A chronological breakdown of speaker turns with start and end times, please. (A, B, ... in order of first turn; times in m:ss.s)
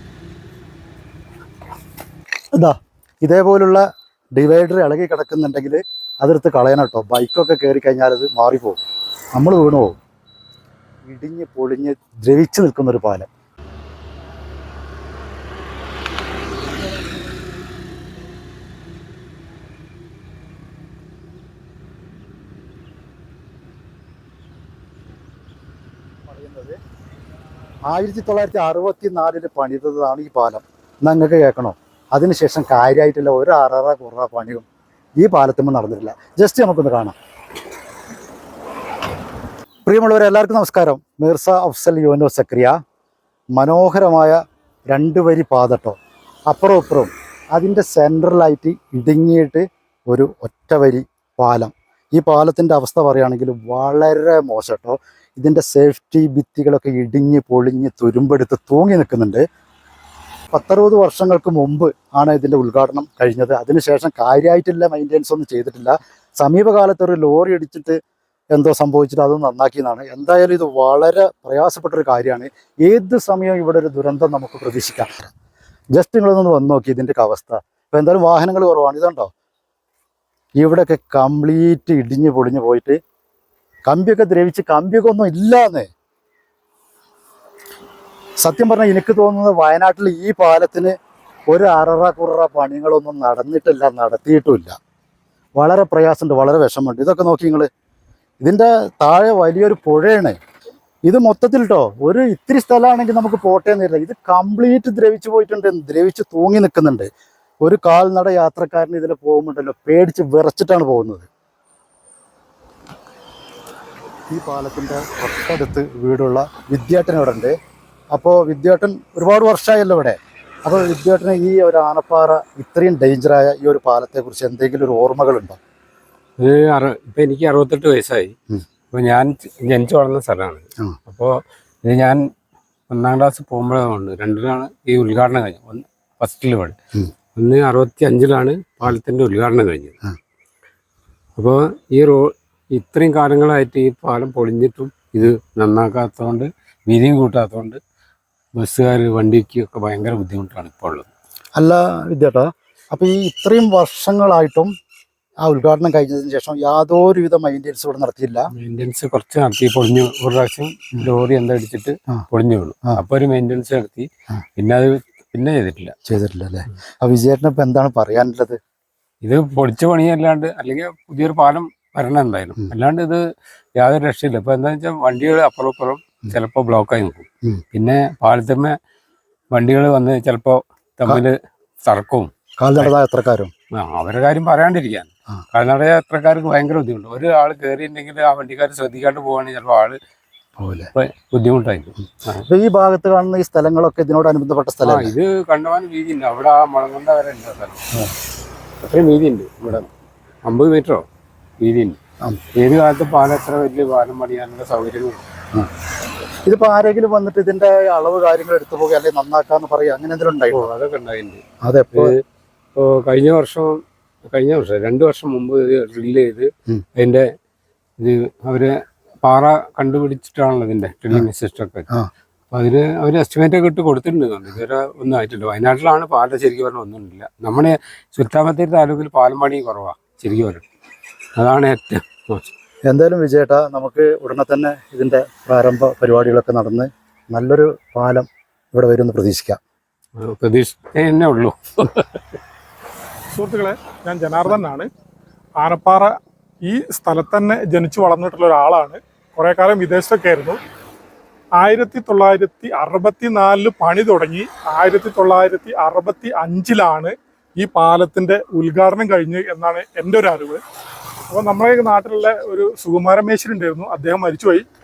0:02.5-0:03.8 A
0:04.4-0:08.8 A
0:09.3-0:10.0 A
0:11.0-0:13.3 A
0:26.2-0:26.8 A
0:27.8-0:34.6 A
0:35.2-0:37.2 A
0:39.8-0:42.8 A
0:43.5-0:44.4 A
0:44.9-0:46.0 A
0:46.5-0:59.4 A
1:00.5-1:08.0 A
1:08.5-1:15.3 A
1:15.9-1:19.3 A
1:20.6-1:23.0 A
1:23.9-1:25.9 A
1:28.4-1:30.9 A
1:31.5-1:34.8 A
1:35.6-1:37.7 A
1:38.4-1:40.4 A
1:41.0-1:47.1 A
1:47.6-1:51.3 A
1:54.3-1:57.6 A
1:58.1-2:05.6 A
2:06.4-2:08.3 B
2:08.9-2:12.2 B
2:12.9-2:16.8 B
2:17.3-2:20.0 B
2:21.4-2:27.8 B
2:28.6-2:31.1 B
2:31.6-2:34.7 A
2:35.4-2:38.5 A
2:38.5-2:45.9 B
2:46.1-2:48.6 A
2:49.2-2:53.2 B
2:53.8-2:58.7 B
2:59.5-3:01.3 B
3:01.8-3:02.9 B
3:02.6-3:03.5 A
3:03.7-3:10.0 B
3:10.6-3:10.9 A
3:10.9-3:12.4 B
3:12.5-3:15.1 A
3:14.8-3:17.8 B
3:18.8-3:19.9 B
3:20.4-3:21.0 B
3:21.6-3:22.0 B
3:22.6-3:25.2 B
3:26.4-3:30.7 A
3:30.5-3:31.4 B
3:31.6-3:32.1 A
3:32.8-3:37.2 B
3:38.0-3:41.9 B
3:42.5-3:50.6 B
3:51.4-3:52.4 B
3:52.9-3:59.6 A
4:00.2-4:02.2 B
4:03.3-4:04.9 C
4:05.6-4:10.6 C
4:11.6-4:20.6 C
4:21.3-4:24.6 C